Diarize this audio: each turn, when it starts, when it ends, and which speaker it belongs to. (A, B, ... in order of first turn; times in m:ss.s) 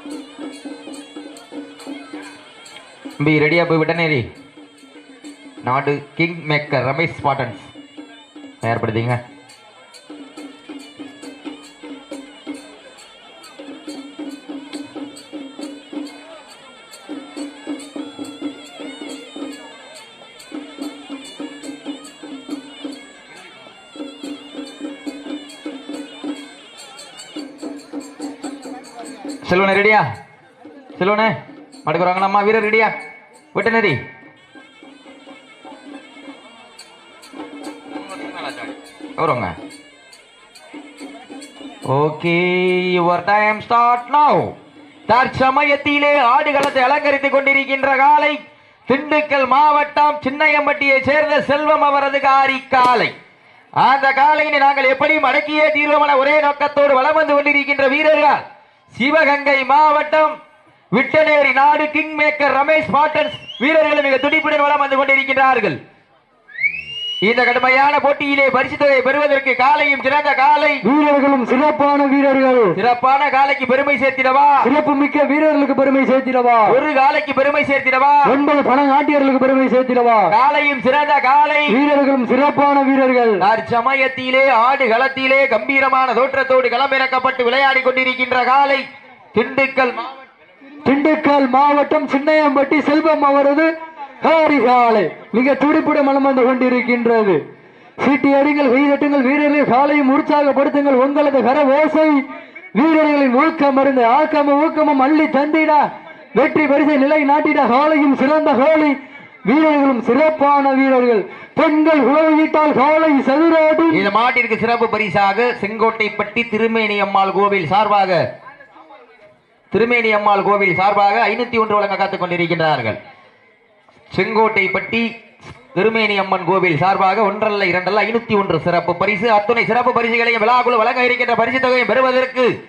0:03.2-0:04.2 A
0:05.6-0:07.7 A
0:08.6-0:09.2 A
0:29.4-0:30.0 A
0:31.0-0:32.9 A
0:33.5-0:34.0 A
0:37.9-0:39.5 A
0:41.9-0:44.5 A
0:45.1-0:53.1 A
0:53.8-1:00.3 A
1:00.9-1:05.8 A
1:07.2-1:10.8 A
1:10.8-1:12.7 B
1:12.8-1:14.6 A
1:14.6-1:16.8 B
1:16.7-1:18.3 A
1:18.3-1:20.3 B
1:20.3-1:21.8 A
1:21.7-1:23.4 B
1:23.4-1:30.1 A
1:30.8-1:33.7 B
1:34.2-1:37.4 B
1:38.0-1:42.2 B
1:42.7-1:45.8 B
1:46.4-1:49.0 B
1:49.5-1:54.0 B
1:53.9-1:58.2 A
1:59.7-2:03.0 A
2:04.1-2:12.5 A